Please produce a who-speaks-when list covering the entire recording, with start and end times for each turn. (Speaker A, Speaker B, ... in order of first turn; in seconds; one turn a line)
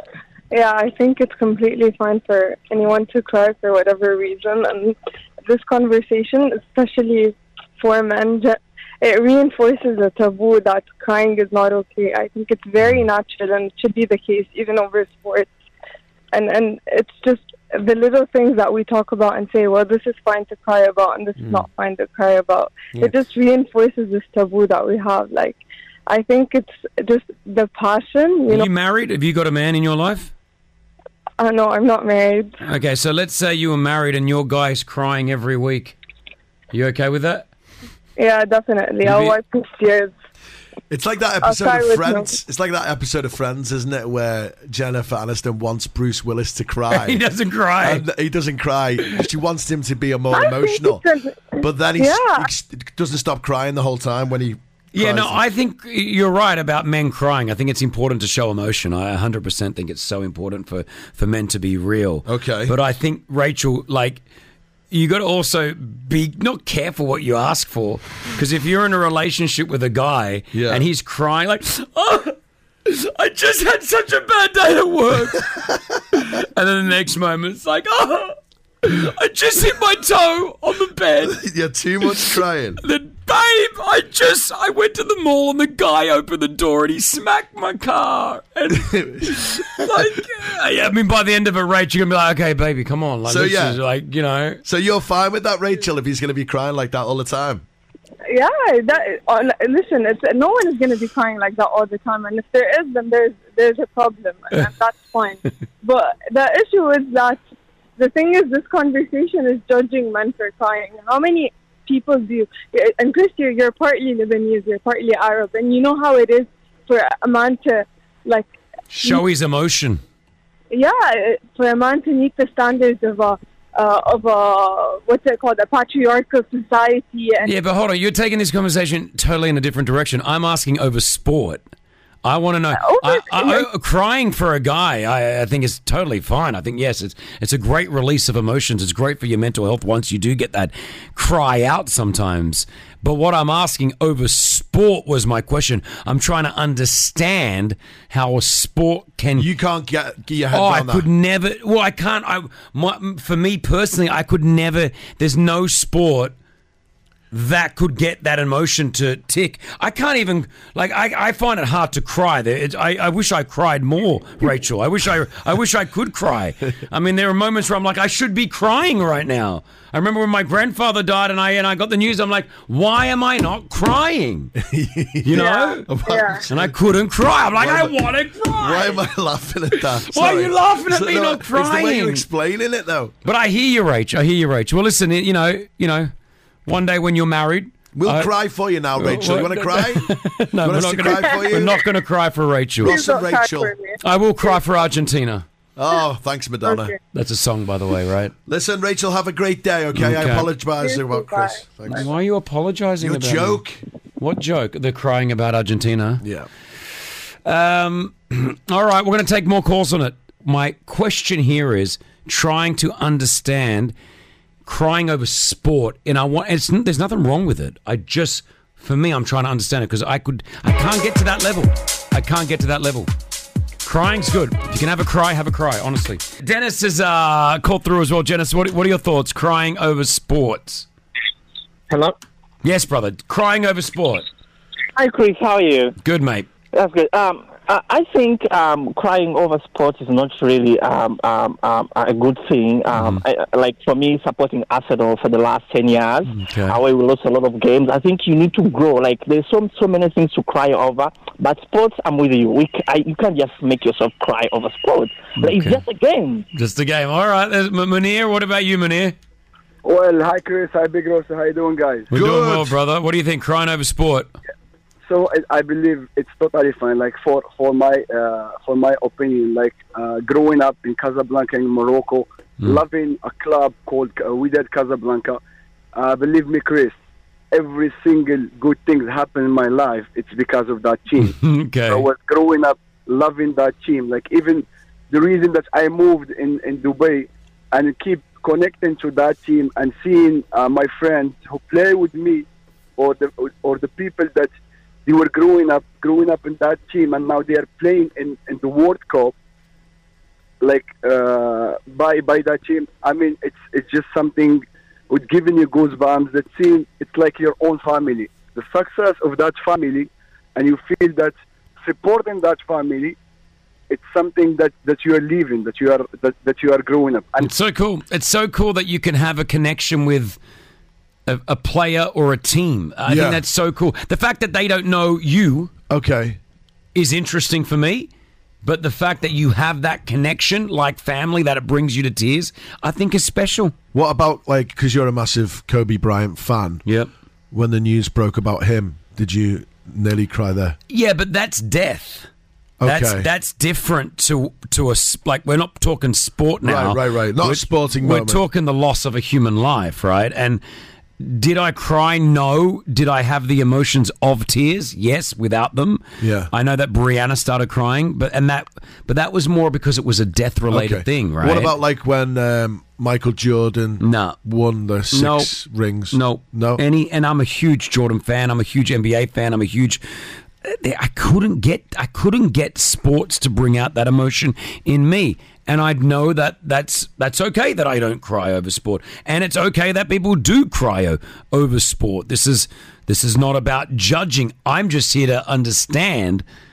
Speaker A: 0.5-5.0
Speaker A: 5.5-15.5
Speaker A: 16.3-28.7
Speaker B: 28.5-30.3
Speaker A: 31.4-32.5
Speaker B: 32.6-36.0
Speaker B: 36.7-37.5
Speaker A: 38.2-40.1
Speaker B: 39.0-39.4
Speaker C: 40.9-47.2
Speaker A: 41.4-42.3
Speaker B: 46.9-48.0
Speaker C: 47.8-51.0
Speaker A: 50.3-52.5
Speaker C: 51.6-55.4
Speaker B: 54.9-64.2
Speaker C: 62.2-62.8
Speaker B: 64.9-75.6
Speaker C: 70.5-70.8
Speaker B: 76.1-81.4
Speaker C: 81.3-82.8
Speaker B: 82.0-94.6
Speaker C: 88.7-90.1
Speaker C: 93.2-93.8
Speaker C: 94.6-97.6
Speaker A: 98.3-107.4
Speaker A: 108.0-118.5
Speaker B: 118.9-120.0
Speaker A: 120.7-127.5
Speaker B: 127.4-131.6
Speaker B: 132.2-149.5
Speaker A: 132.7-133.7
Speaker C: 149.3-151.1
Speaker B: 150.5-156.3
Speaker B: 157.3-174.5
Speaker C: 174.6-176.7
Speaker B: 175.2-175.9
Speaker A: 175.3-176.4
Speaker B: 176.5-179.0
Speaker C: 177.6-178.0
Speaker C: 178.6-183.1
Speaker B: 179.8-182.2
Speaker B: 183.2-186.1
Speaker B: 186.7-188.3
Speaker C: 187.9-190.1
Speaker B: 188.9-193.0
Speaker C: 190.6-191.8
Speaker C: 192.8-193.7
Speaker A: 192.8-194.0
Speaker B: 194.0-195.4
Speaker C: 195.8-196.9
Speaker A: 196.6-197.0
Speaker B: 197.1-198.3
Speaker C: 198.4-202.1
Speaker B: 199.9-200.5
Speaker A: 200.8-202.0
Speaker B: 201.9-203.6
Speaker C: 203.0-203.8
Speaker B: 204.2-206.2
Speaker C: 206.2-206.5
Speaker B: 207.4-213.9
Speaker B: 214.6-223.1
Speaker B: 223.8-230.9
Speaker B: 232.6-234.3
Speaker B: 236.0-236.5
Speaker D: 242.7-243.1
Speaker B: 242.9-243.2
Speaker D: 243.7-246.1
Speaker B: 246.2-246.8
Speaker D: 247.7-250.9
Speaker D: 251.5-254.9
Speaker B: 255.4-255.8
Speaker B: 256.5-259.1
Speaker E: 259.8-262.1
Speaker C: 262.1-262.8
Speaker B: 262.1-264.3
Speaker E: 265.1-275.4
Speaker E: 275.9-276.9
Speaker E: 277.5-281.3
Speaker B: 281.2-282.1
Speaker E: 281.9-292.4
Speaker E: 293.0-294.5
Speaker E: 295.1-299.3
Speaker E: 300.6-313.1
Speaker E: 313.9-317.5
Speaker B: 317.4-320.4
Speaker B: 321.3-325.7
Speaker C: 323.1-323.4
Speaker C: 325.9-326.4
Speaker B: 326.9-328.1
Speaker B: 328.6-333.7
Speaker C: 333.9-336.8
Speaker C: 337.5-340.8
Speaker B: 340.9-342.3
Speaker C: 342.8-343.3
Speaker B: 342.8-350.6
Speaker C: 346.6-348.4
Speaker B: 351.2-361.7
Speaker C: 356.2-356.5
Speaker C: 360.7-366.8
Speaker B: 364.0-364.4
Speaker B: 365.1-365.5
Speaker B: 366.1-370.0
Speaker B: 370.6-386.4